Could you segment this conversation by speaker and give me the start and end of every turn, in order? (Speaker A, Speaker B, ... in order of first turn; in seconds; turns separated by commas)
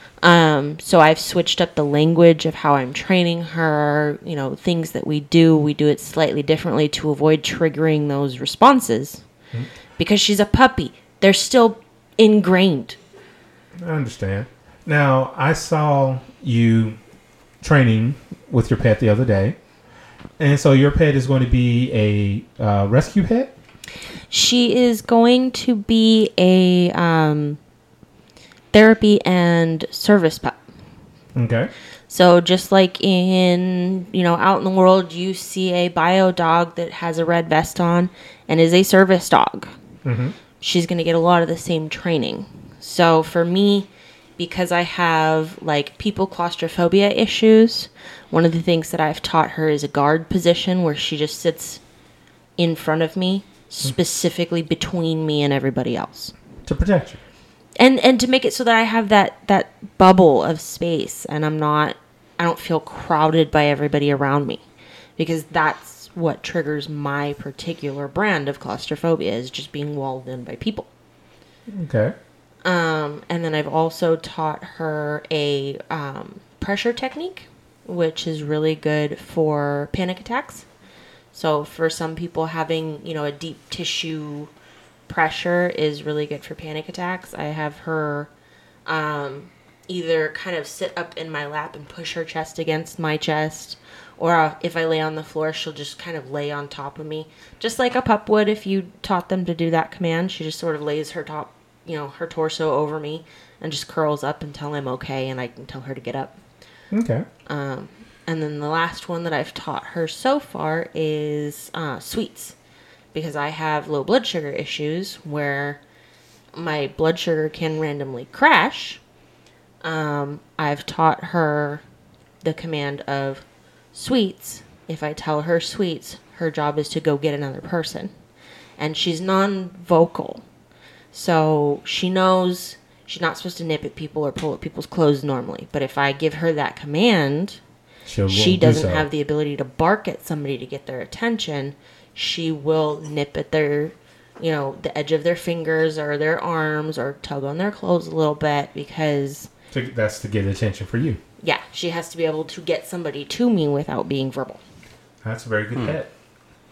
Speaker A: 0.2-9.2, Speaker A: 10.0-13.0, Speaker B: 13.8-17.0, Speaker B: 17.6-19.6, Speaker B: 20.4-23.5, Speaker A: 24.3-27.6, Speaker A: 28.7-30.6, Speaker B: 31.4-31.7, Speaker A: 32.1-39.7, Speaker B: 40.0-40.4, Speaker A: 40.6-51.8, Speaker A: 52.6-56.3, Speaker B: 56.6-57.2, Speaker A: 57.8-64.6, Speaker A: 65.2-70.9, Speaker B: 71.7-72.2, Speaker A: 72.6-80.7, Speaker A: 81.3-84.5, Speaker A: 85.1-88.3, Speaker A: 88.9-106.4, Speaker B: 106.9-107.3, Speaker A: 107.5-112.5, Speaker A: 113.1-115.8, Speaker A: 116.5-119.0, Speaker A: 119.8-121.8, Speaker A: 122.4-128.1, Speaker A: 128.8-130.4, Speaker A: 131.1-137.6, Speaker B: 138.1-139.1, Speaker A: 138.3-149.5, Speaker B: 149.7-151.2, Speaker A: 151.4-154.6, Speaker B: 155.2-156.1